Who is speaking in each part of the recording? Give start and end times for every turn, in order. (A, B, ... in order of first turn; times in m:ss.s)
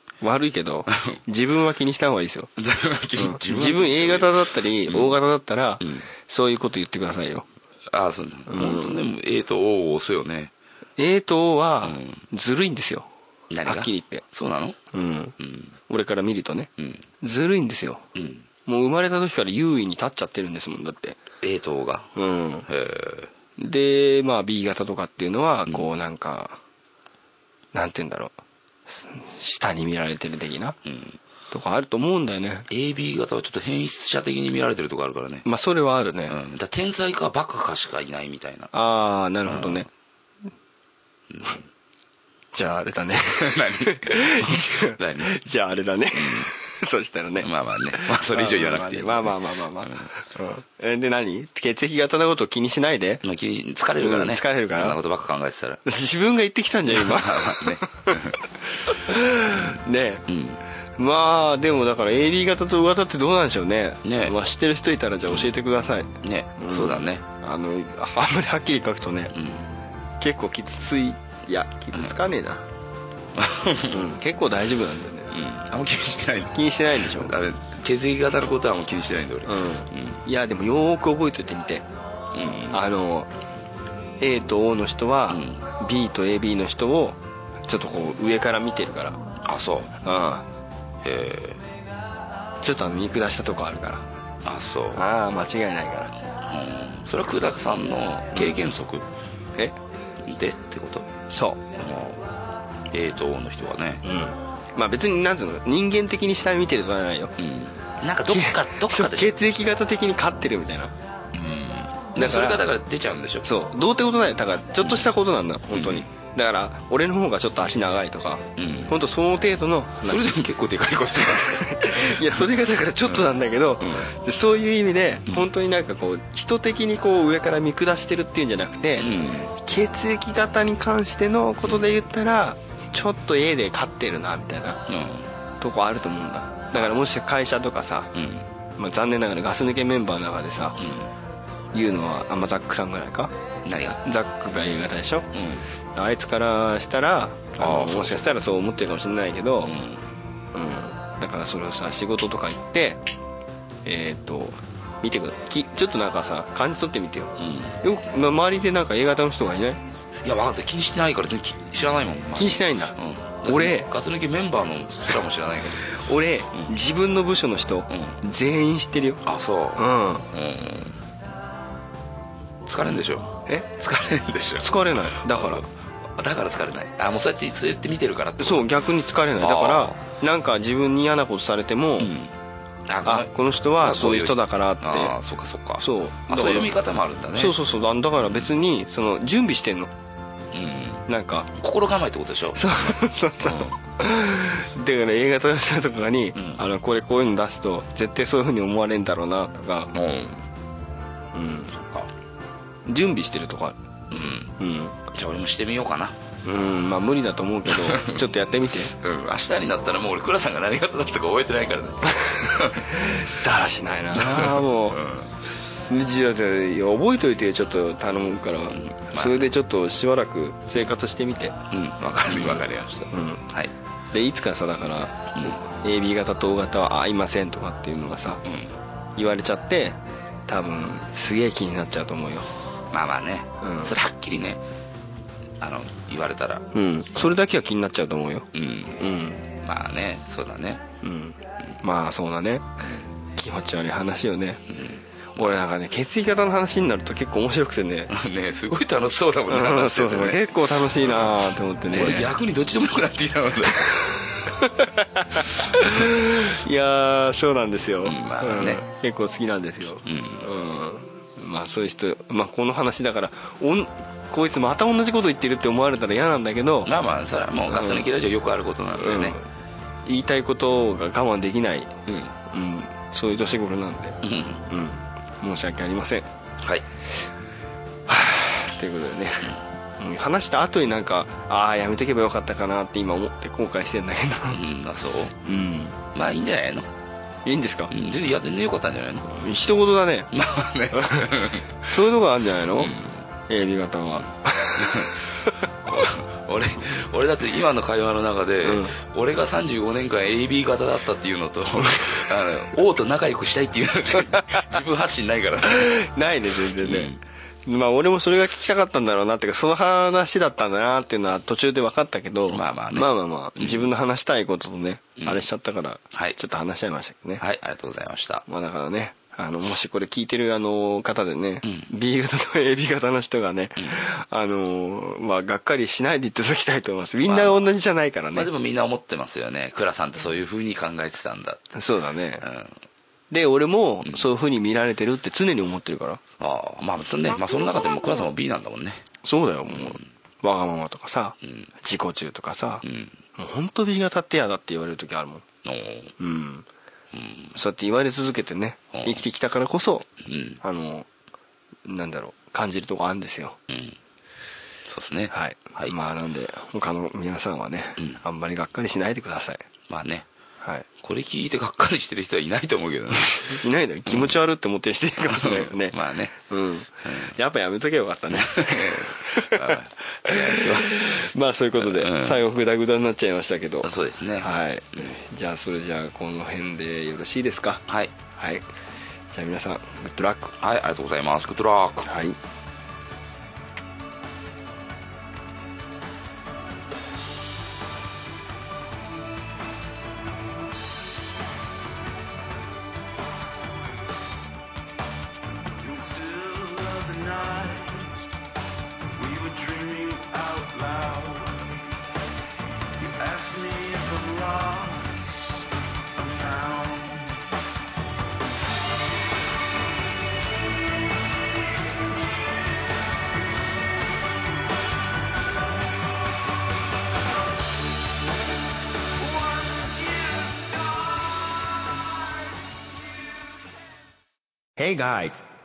0:00.2-0:02.5 A
0:00.9-0:01.2 B
0:02.6-0:05.2 B
0:03.2-0:07.4 A
0:05.8-0:06.1 B
0:07.9-0:10.5 B
0:08.5-0:09.0 A
0:11.0-0:13.1 A
0:11.8-0:12.2 B
0:13.5-0:14.8 B
0:13.6-0:14.2 A
0:14.9-0:15.4 A
0:15.4-0:15.7 B
0:15.9-0:16.7 A
0:16.8-0:17.0 B
0:17.2-0:18.0 A
0:18.1-0:18.4 B
0:18.6-0:21.2 A
0:21.4-0:22.1 B
0:22.2-0:22.7 A
0:22.7-0:23.3 B
0:23.6-0:26.6 A
0:27.7-0:28.4 A
0:28.9-0:30.8 A
0:30.8-0:31.2 B
0:31.5-0:32.7 A
0:32.7-0:35.4 B
0:35.4-0:36.4 A
0:36.3-0:38.7 B
0:38.7-0:39.9 A
0:39.4-0:39.8 B
0:41.3-0:41.6 B
0:42.5-0:53.2 A
0:43.3-0:45.3 B
0:46.1-0:46.5 B
0:47.4-0:50.1 B
0:53.2-0:55.8 B
0:54.0-0:55.0 A
0:55.8-0:58.3 A
0:56.9-0:58.4 B
0:58.9-1:00.2 A
1:00.3-1:00.6 B
1:01.0-1:09.3 A
1:04.0-1:04.4 B
1:06.2-1:07.2 B
1:09.3-1:09.7 B
1:10.2-1:12.6 A
1:13.4-1:14.1 B
1:13.9-1:15.3 A
1:15.3-1:20.2 B
1:16.5-1:17.3 A
1:19.4-1:21.8 A
1:22.3-1:22.8 B
1:22.7-1:23.3 A
1:24.2-1:29.2 A
1:25.3-1:25.6 B
1:29.4-1:30.0 B
1:30.0-1:30.4 A
1:31.0-1:31.6 B
1:32.6-1:34.1 A
1:34.4-1:35.0 B
1:34.9-1:36.1 A
1:36.3-1:39.1 B
1:38.3-1:38.6 A
1:40.2-1:41.1 B
1:41.3-1:41.6 A
1:41.7-1:42.2 B
1:42.9-1:44.0 B
1:44.0-1:47.4 A
1:47.4-1:49.3 B
1:48.3-1:50.9 A
1:51.3-1:53.5 B
1:52.2-1:52.6 A
1:53.4-2:00.4 A
1:54.8-1:55.1 B
1:55.7-1:56.1 B
1:58.6-1:59.0 B
2:00.0-2:02.5 B
2:01.2-2:14.8 A
2:03.0-2:04.1 B
2:09.0-2:09.5 B
2:14.9-2:15.3 B
2:15.6-2:18.1 A
2:18.1-2:18.5 B
2:18.8-2:20.8 A
2:20.8-2:21.1 B
2:21.7-2:23.3 A
2:23.6-2:24.0 B
2:24.0-2:25.3 A
2:25.3-2:25.6 B
2:25.9-2:29.7 A
2:27.6-2:28.4 B
2:29.6-2:30.0 B
2:30.5-2:33.0 A
2:33.8-2:39.8 A
2:37.4-2:37.8 B
2:40.2-2:46.0 B
2:42.4-2:43.9 A
2:45.9-2:49.2 A
2:47.9-2:48.2 B
2:49.2-2:51.0 B
2:49.8-2:50.2 A
2:52.6-2:58.7 B
2:54.6-2:55.6 A
2:58.4-3:02.1 A
2:59.4-3:00.0 B
3:02.0-3:02.4 B
3:02.9-3:07.6 B
3:03.0-3:05.1 A
3:05.8-3:06.7 A
3:07.4-3:09.9 A
3:08.2-3:08.5 B
3:10.5-3:13.8 B
3:11.1-3:11.5 A
3:12.5-3:19.9 A
3:16.4-3:16.6 B
3:19.9-3:20.4 B
3:21.3-3:21.7 A
3:21.7-3:22.1 B
3:22.9-3:23.8 A
3:24.1-3:24.5 B
3:24.6-3:25.0 A
3:25.1-3:26.2 B
3:26.4-3:28.9 A
3:27.6-3:28.2 B
3:28.9-3:32.9 B
3:32.1-3:35.0 A
3:34.1-3:35.4 B
3:35.9-3:43.4 A
3:38.7-3:39.5 B
3:41.7-3:43.7 B
3:44.1-3:48.4 A
3:48.4-3:48.8 B
3:49.2-3:52.5 A
3:52.9-3:54.6 B
3:53.6-3:53.9 A
3:55.6-3:56.6 B
3:56.7-3:59.4 A
3:58.5-4:00.8 B
4:01.0-4:02.7 A
4:03.4-4:04.6 A
4:04.7-4:05.5 B
4:05.4-4:08.1 A
4:08.1-4:14.3 B
4:09.5-4:12.3 A
4:13.9-4:26.9 A
4:18.0-4:18.8 B
4:20.0-4:20.4 B
4:26.8-4:29.4 B
4:27.7-4:28.1 A
4:29.0-4:29.4 A
4:30.1-4:36.3 A
4:34.2-4:34.6 B
4:36.6-4:36.9 B
4:38.1-4:44.6 A
4:44.5-4:45.4 B
4:45.4-4:46.0 A
4:46.1-4:46.9 B
4:47.4-4:47.9 A
4:47.9-4:49.3 B
4:49.3-4:50.3 A
4:50.3-4:51.8 B
4:50.9-4:51.3 A
4:51.8-4:55.5 A
4:52.7-4:53.1 B
4:54.8-4:55.1 B
4:55.8-5:06.0 B
4:58.6-4:58.9 A
5:05.6-5:07.1 A
5:06.8-5:07.2 B
5:07.6-5:17.4 A
5:12.5-5:13.9 B
5:15.2-5:15.4 B
5:16.1-5:16.4 B
5:17.4-5:18.4 B
5:18.4-5:28.5 A
5:23.8-5:24.0 B
5:27.2-5:27.7 B
5:28.3-5:31.7 B
5:31.7-5:32.4 A
5:32.4-5:32.8 B
5:33.3-5:36.2 A
5:36.4-5:39.1 B
5:39.2-5:45.4 A
5:39.7-5:40.0 B
5:41.4-5:41.7 B
5:42.8-5:43.2 B
5:45.6-5:46.1 B
5:46.2-5:46.6 A
5:47.1-5:47.5 B
5:47.5-5:50.1 A
5:48.9-5:49.2 B
5:50.2-5:50.6 B
5:50.6-5:51.1 A
5:51.8-5:53.6 A
5:53.7-5:54.0 B
5:54.9-5:55.9 B
5:55.3-5:59.7 A
5:59.9-6:00.3 B
6:00.6-6:00.9 A
6:01.0-6:04.4 B
6:03.5-6:17.8 A
6:05.3-6:06.3 B
6:07.0-6:07.3 B
6:08.3-6:11.1 B
6:11.8-6:12.4 B
6:13.8-6:15.1 B
6:17.9-6:18.1 B
6:18.4-6:18.6 A
6:19.3-6:20.5 A
6:20.6-6:22.1 B
6:22.0-6:22.4 A
6:35.8-6:38.2 C
6:39.2-6:41.7 C
6:43.0-6:45.6 C
6:46.1-6:47.4 C
6:59.2-7:01.3 C
7:04.8-7:05.4 A